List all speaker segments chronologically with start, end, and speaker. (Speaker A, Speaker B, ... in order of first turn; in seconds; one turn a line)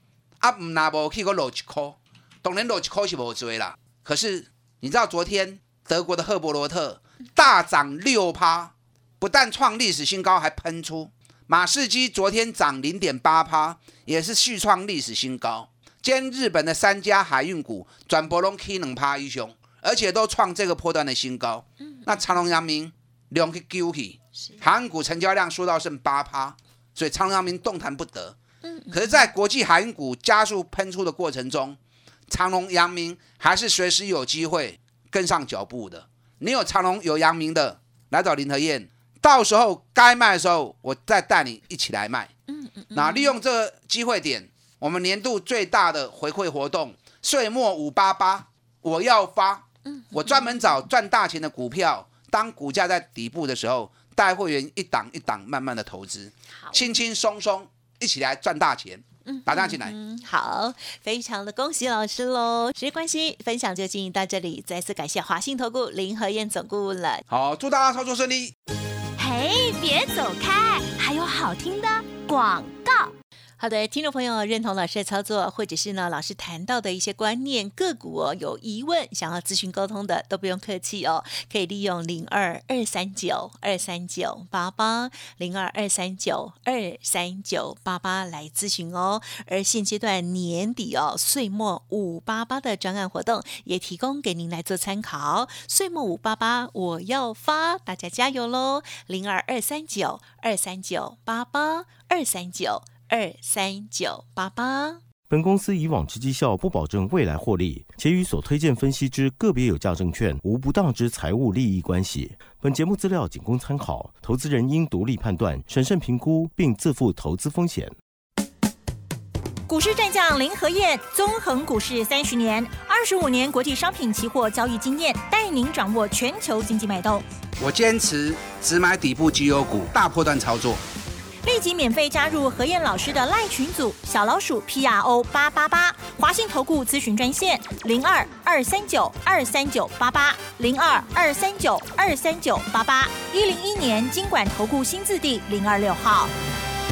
Speaker A: 0.4-28.4
Speaker B: 28.6-29.2
Speaker A: 28.9-42.3
Speaker B: 42.5-43.4
Speaker A: 42.9-59.9
Speaker B: 49.9-50.7
Speaker B: 56.6-56.9
Speaker B: 59.2-67.2
Speaker A: 67.3-68.5
Speaker C: 69.2-73.1
Speaker B: 73.6-105.0
Speaker D: 105.2-117.9
Speaker C: 119.7-127.2
Speaker A: 127.6-130.8
Speaker C: 131.4-146.3